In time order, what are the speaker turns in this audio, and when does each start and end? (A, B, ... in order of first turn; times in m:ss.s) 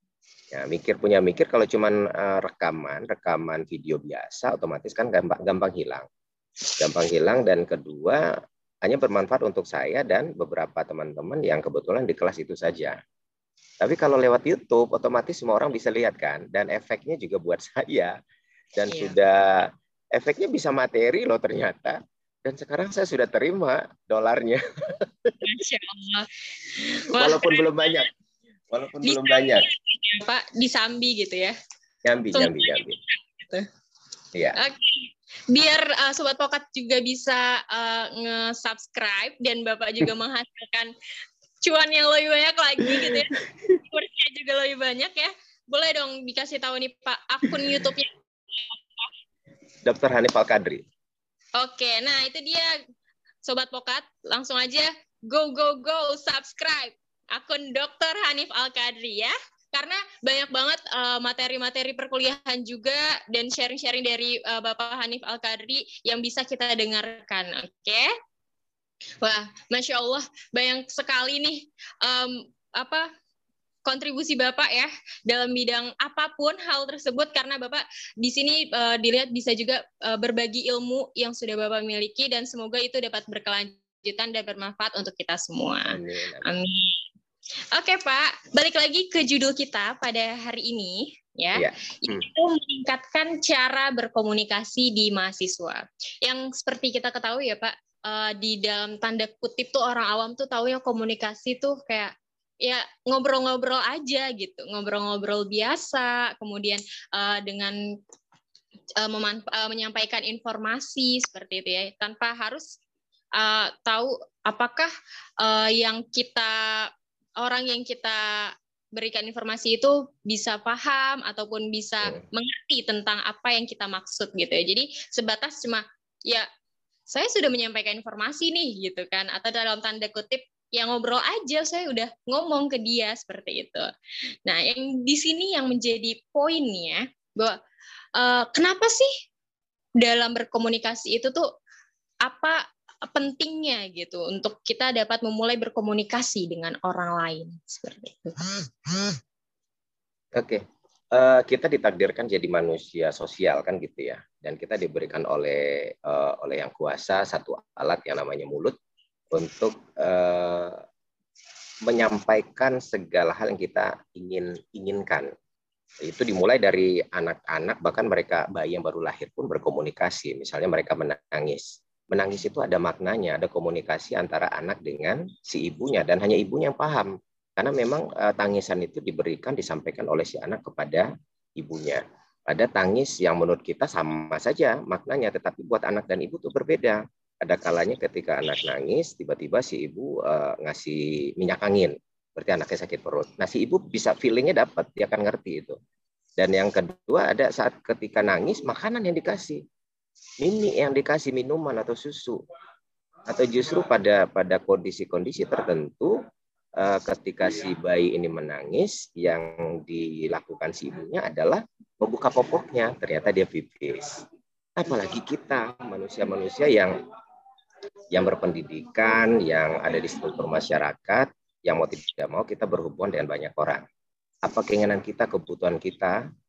0:00.5-0:06.1 A
0:06.8-0:13.0 A
0:13.8-0:18.2 A
0:18.8-0:25.4 A
0:18.9-0:19.2 B
0:25.4-0:28.0 B
0:27.1-0:28.1 A
0:28.7-0:29.6 A
0:29.0-0:31.5 B
0:32.0-0:33.0 A
0:32.3-0:33.7 B
0:34.6-0:40.9 B
0:41.6-0:49.1 B
0:42.9-0:43.8 A
0:49.8-0:50.8 A
0:51.6-0:52.7 B
0:53.4-1:08.1 B
1:09.2-1:13.1 B
1:13.8-1:27.0 B
1:25.8-1:26.5 A
1:27.7-1:47.8 B
1:31.5-1:32.3 A
1:49.0-1:52.8 B
1:53.4-2:06.5 B
2:07.1-2:13.9 B
2:14.4-2:17.6 B
2:18.2-2:19.1 B
2:20.0-2:21.5 B
2:22.2-2:28.5 B
2:30.3-2:38.8 A
2:39.3-2:40.8 A
2:41.8-2:45.3 A
2:46.0-3:15.8 A
3:16.4-3:19.6 A
3:20.4-3:22.4 A
3:23.2-3:26.2 A
3:26.8-3:37.0 A
3:38.1-3:43.8 A
3:44.4-3:46.2 A